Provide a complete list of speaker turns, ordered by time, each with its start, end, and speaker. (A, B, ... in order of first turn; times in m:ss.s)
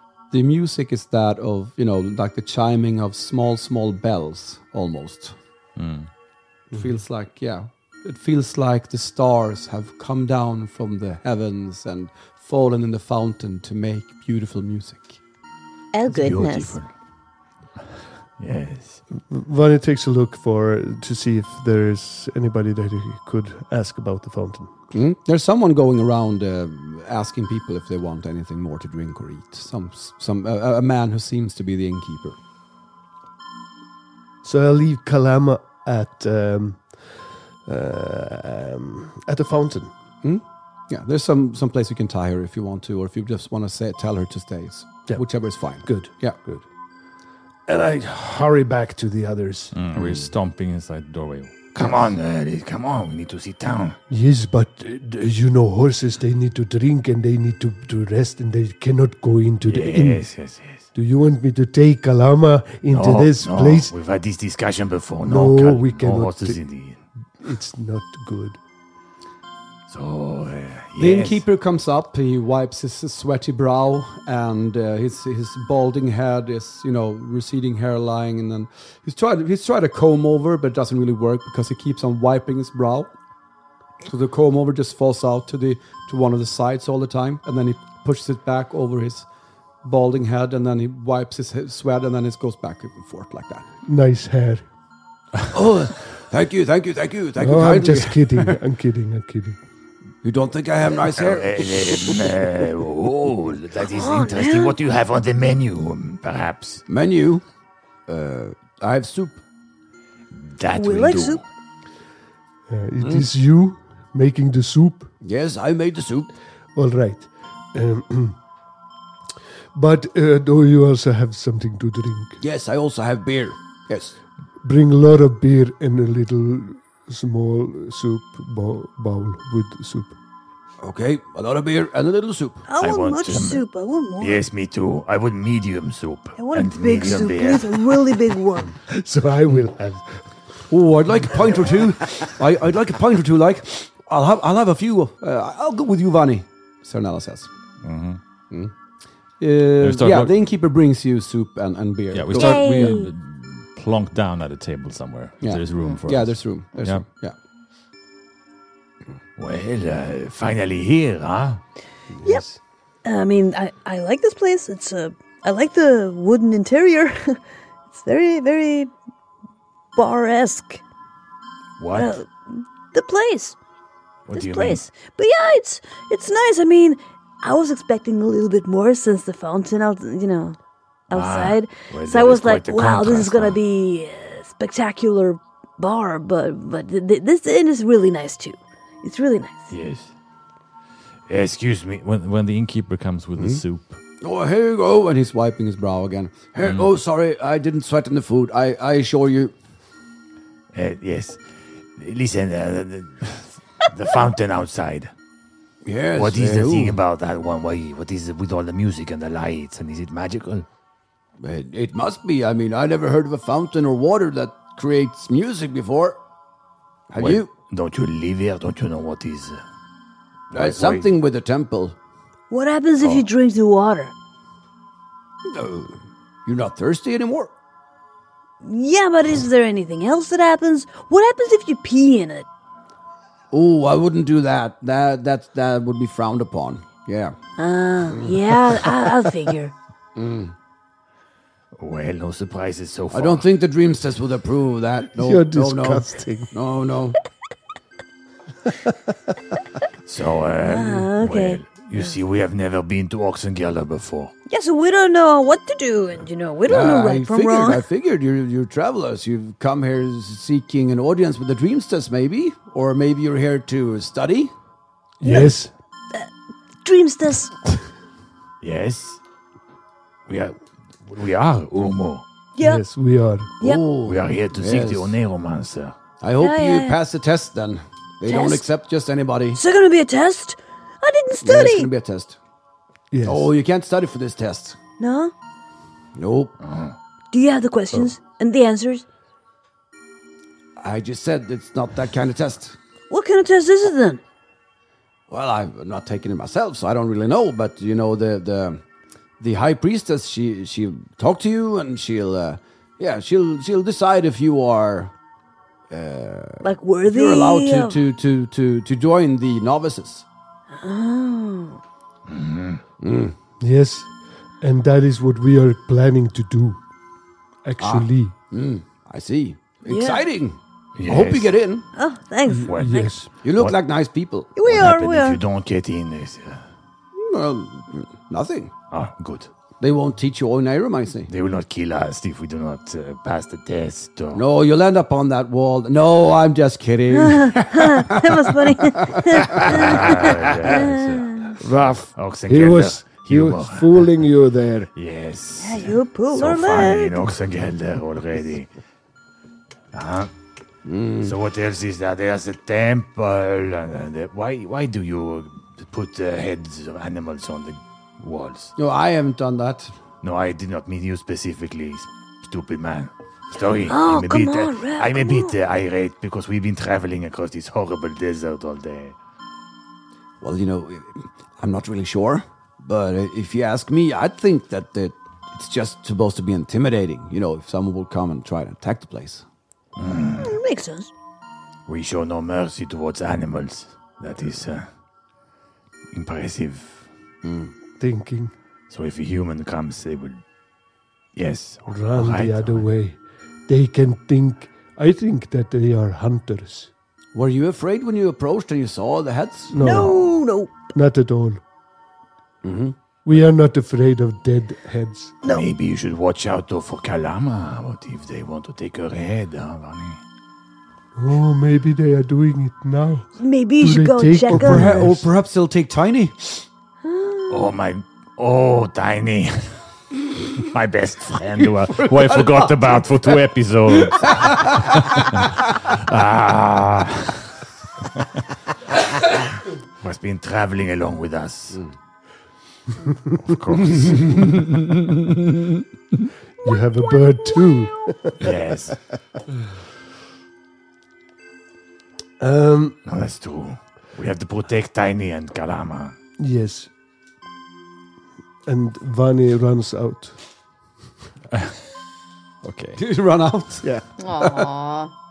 0:00.3-0:05.4 A
0:05.8-0:06.1 B
0:06.7-0:07.0 C
0:06.8-0:15.2 A
0:15.9-0:16.8 D
0:16.1-0:16.9 B
0:18.4-0:19.0 B
0:19.2-0:24.7 C
0:24.9-0:32.4 A
0:34.4-0:37.1 C
0:37.6-0:39.9 C
0:40.2-0:46.4 A
0:45.1-0:46.6 C
0:47.7-0:49.8 C
0:49.7-0:54.0 B
0:50.0-0:51.5 E
0:54.1-1:00.3 C
0:59.6-1:00.8 B
1:00.9-1:03.9 C
1:02.9-1:07.0 B
1:05.2-1:06.6 C
1:07.4-1:08.6 C
1:09.9-1:11.4 B
1:11.0-1:23.1 A
1:24.0-1:29.3 A
1:29.8-1:33.7 A
1:33.8-1:34.6 C
1:35.5-1:38.6 A
1:37.4-1:39.6 C
1:40.2-1:42.2 A
1:41.0-1:46.8 B
1:43.8-1:44.7 D
1:46.9-1:47.4 A
1:48.1-1:49.4 A
1:50.5-1:51.4 B
1:50.7-1:51.4 D
1:52.7-1:55.1 C
1:55.2-1:56.3 A
1:56.7-1:58.4 C
1:59.7-2:02.4 C
2:02.4-2:04.2 A
2:04.6-2:10.2 C
2:10.8-2:12.6 A
2:12.6-2:14.4 D
2:12.8-2:13.6 B
2:14.2-2:18.1 B
2:16.4-2:18.8 D
2:18.8-2:20.3 C
2:20.7-2:27.5 A
2:27.8-2:28.2 B
2:29.4-2:33.0 A
2:29.8-2:30.3 E
2:29.9-2:30.2 B
2:32.1-2:37.0 E
2:32.3-2:33.1 D
2:33.8-2:34.4 B
2:35.2-2:36.2 B
2:35.4-2:37.4 A
2:39.4-2:41.6 B
2:42.1-2:42.5 C
2:43.0-2:47.4 D
2:47.9-2:48.9 D
2:50.0-2:50.8 D
2:51.8-2:52.1 B
2:51.9-2:53.6 D
2:54.3-2:54.8 B
2:54.3-3:00.6 D
3:01.1-3:09.7 D
3:01.1-3:03.6 B
3:09.7-3:10.1 B
3:11.3-3:14.0 B
3:13.4-3:13.6 A
3:14.2-3:19.5 A
3:20.7-3:21.4 B
3:22.0-3:25.1 B
3:25.8-3:27.0 A
3:26.1-3:30.6 B
3:31.4-3:36.2 A
3:37.1-3:37.5 A
3:37.2-3:39.6 B
3:40.5-3:41.1 B
3:40.5-3:42.0 A
3:42.5-3:44.1 D
3:45.4-3:47.5 A
3:48.6-3:52.4 D
3:53.5-3:57.4 A
3:57.6-3:59.7 D
4:00.1-4:00.5 A
4:01.7-4:03.4 B
4:03.1-4:07.2 A
4:05.1-4:06.5 C
4:10.0-4:14.3 B
4:10.6-4:12.1 D
4:14.5-4:17.8 D
4:16.6-4:24.5 A
4:25.2-4:25.7 C
4:25.2-4:25.6 D
4:26.8-4:27.6 D
4:28.6-4:29.2 B
4:30.3-4:32.2 B
4:32.6-4:32.8 D
4:32.6-4:33.5 C
4:33.6-4:35.1 A
4:34.0-4:36.0 B
4:36.2-4:39.6 A
4:36.4-4:37.0 D
4:38.3-4:38.6 D
4:39.5-4:41.9 D
4:41.4-4:42.4 A
4:43.1-4:43.5 C
4:43.2-4:44.8 A
4:45.0-4:45.3 D
4:46.1-4:46.5 A
4:46.6-4:47.0 B
4:47.3-4:49.0 D
4:50.8-4:52.8 A
4:53.1-4:54.2 D
4:55.3-4:58.8 A
4:59.4-5:05.1 A
5:05.9-5:10.2 A
5:06.6-5:08.0 D
5:10.8-5:11.8 D
5:12.3-5:12.8 B
5:13.0-5:13.4 A
5:13.6-5:16.8 C
5:17.6-5:18.3 C
5:17.8-5:21.8 A
5:19.8-5:20.2 D
5:21.0-5:21.5 B
5:22.0-5:23.1 D
5:22.4-5:23.3 C
5:22.7-5:23.8 B
5:23.4-5:24.5 A
5:24.6-5:25.4 D
5:24.6-5:26.7 B
5:27.1-5:28.7 A
5:28.9-5:29.5 B
5:29.8-5:31.3 A
5:31.3-5:34.4 B
5:34.3-5:40.2 A
5:37.2-5:41.6 D
5:39.6-5:41.6 B
5:41.6-5:44.9 C
5:42.1-5:44.1 B
5:45.0-5:48.7 B
5:45.6-5:47.2 D
5:49.9-5:50.3 B
5:50.8-5:51.3 A
5:51.2-5:58.7 B
5:58.8-5:59.9 A
6:00.2-6:09.2 B
6:03.9-6:05.5 D
6:10.4-6:19.4 A
6:20.0-6:20.6 B
6:20.4-6:21.1 D
6:21.9-6:24.9 B
6:26.1-6:27.1 B
6:27.4-6:27.7 A
6:28.0-6:28.5 C
6:28.9-6:30.4 B
6:31.3-6:32.9 B
6:31.9-6:36.9 C
6:37.3-6:39.8 A
6:39.7-6:40.2 C
6:39.8-6:40.7 D
6:40.9-6:41.6 C
6:42.6-6:43.0 A
6:43.2-6:45.4 C
6:45.4-6:50.2 B
6:51.2-6:55.3 C
6:53.4-6:55.0 D
6:54.5-6:56.7 A
6:57.0-6:57.7 D
6:57.5-6:59.8 B
7:00.6-7:04.8 B
7:01.4-7:03.1 A
7:04.1-7:05.5 A
7:05.8-7:07.6 B
7:10.0-7:11.8 B
7:13.4-7:14.7 B
7:16.6-7:18.5 C
7:18.4-7:19.0 B
7:22.4-7:23.0 C
7:23.0-7:26.2 B
7:26.4-7:26.9 C
7:28.6-7:30.4 C
7:33.0-7:34.7 A
7:34.2-7:35.1 D